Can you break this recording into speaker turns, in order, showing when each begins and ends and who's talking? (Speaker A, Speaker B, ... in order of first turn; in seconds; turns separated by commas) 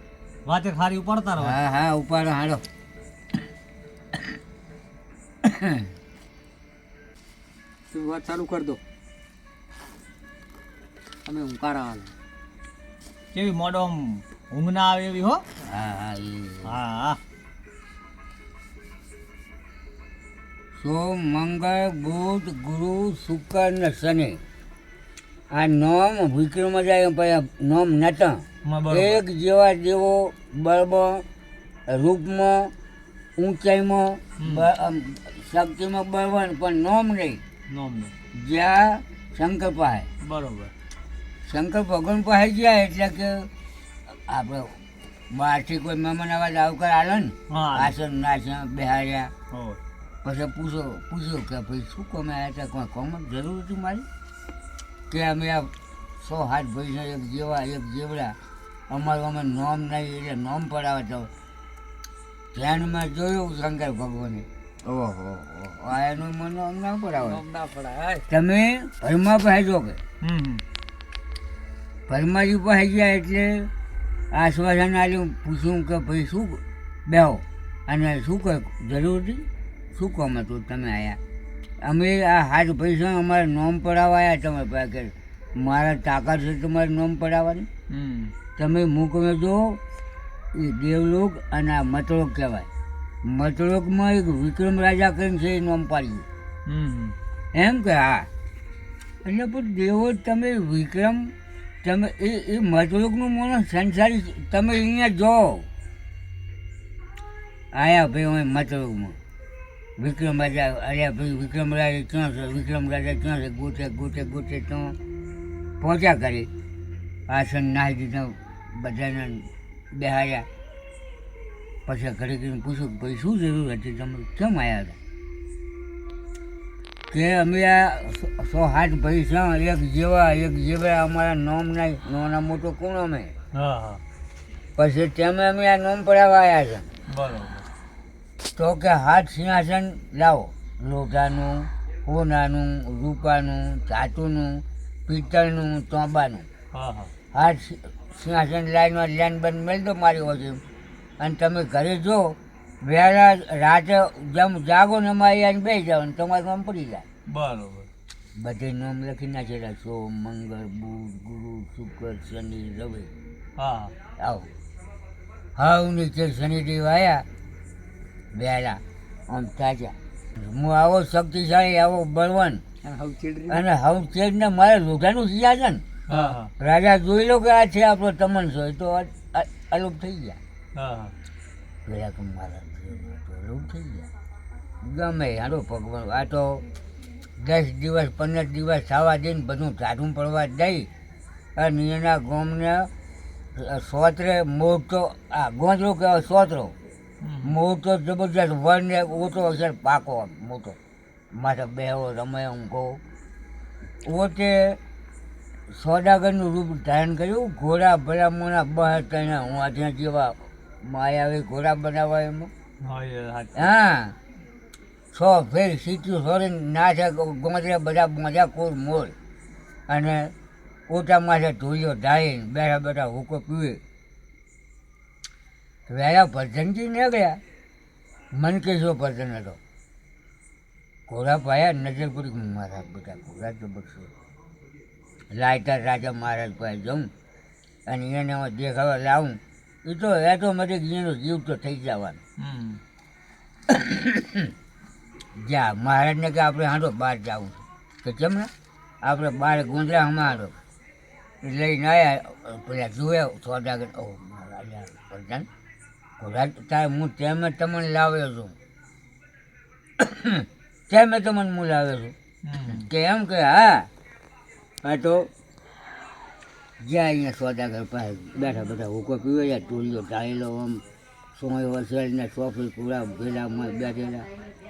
Speaker A: 0.5-1.6, Speaker B: 1.4-2.6, Speaker B: 5.5-5.9, Speaker C: 7.9-8.8, Speaker C: 11.2-12.1, Speaker A: 13.3-15.4, Speaker B: 15.7-16.8, Speaker A: 16.6-17.2, Speaker B: 20.8-24.4, Speaker B: 25.5-31.2, Speaker A: 28.6-29.2, Speaker B: 31.9-32.7, Speaker B: 33.4-37.4, Speaker A: 34.4-34.7, Speaker A: 37.7-38.1, Speaker B: 38.3-40.1, Speaker A: 40.2-40.7, Speaker B: 41.5-43.5, Speaker B: 44.3-44.8, Speaker B: 45.3-49.3, Speaker A: 47.5-48.0, Speaker A: 49.5-49.8, Speaker B: 50.2-54.0, Speaker B: 55.1-58.4, Speaker B: 58.9-61.3, Speaker B: 62.5-67.4, Speaker C: 67.2-68.3, Speaker B: 68.3-70.0, Speaker A: 70.2-70.6, Speaker B: 72.1-73.7, Speaker B: 74.3-81.2, Speaker B: 81.8-87.7, Speaker A: 87.9-88.3, Speaker B: 88.6-89.8, Speaker B: 90.5-92.7, Speaker B: 93.2-96.3, Speaker A: 96.7-97.2, Speaker B: 97.5-98.3, Speaker B: 99.2-101.3, Speaker B: 101.8-105.7, Speaker B: 107.7-109.2, Speaker B: 110.0-115.0, Speaker B: 115.8-116.5, Speaker B: 117.3-120.5, Speaker B: 121.9-125.0, Speaker B: 127.1-133.3, Speaker A: 133.5-134.0, Speaker B: 134.8-136.9, Speaker A: 137.1-137.7, Speaker B: 138.6-146.5, Speaker A: 146.7-147.1, Speaker B: 147.3-150.6, Speaker B: 151.2-157.1, Speaker A: 157.3-157.9, Speaker B: 158.4-163.1, Speaker A: 163.6-163.9, Speaker B: 164.2-164.5, Speaker B: 165.6-167.2, Speaker B: 168.3-172.6, Speaker C: 172.8-173.7, Speaker B: 173.5-175.8, Speaker A: 176.1-176.5, Speaker C: 176.1-176.4, Speaker B: 176.6-180.4, Speaker A: 180.8-181.2, Speaker B: 181.9-184.1, Speaker B: 184.8-186.6, Speaker B: 187.4-190.9, Speaker B: 191.6-192.9, Speaker B: 193.6-196.8, Speaker A: 197.2-197.6, Speaker B: 197.4-200.8, Speaker B: 201.3-203.0, Speaker B: 204.1-204.8, Speaker B: 205.7-212.5, Speaker A: 212.8-213.7, Speaker B: 213.6-214.2, Speaker B: 215.1-219.1, Speaker B: 219.9-220.3, Speaker B: 220.9-223.8, Speaker B: 225.9-227.4, Speaker B: 228.3-229.6, Speaker B: 231.1-234.1, Speaker B: 235.3-237.1, Speaker B: 237.9-242.2, Speaker A: 242.4-242.8, Speaker B: 243.7-244.5, Speaker B: 245.4-248.5, Speaker B: 249.0-250.6, Speaker B: 251.4-255.5, Speaker B: 256.2-258.6, Speaker B: 260.0-262.1, Speaker A: 262.4-262.9, Speaker B: 262.7-263.9, Speaker B: 264.8-265.3, Speaker B: 266.8-270.8, Speaker B: 271.4-274.3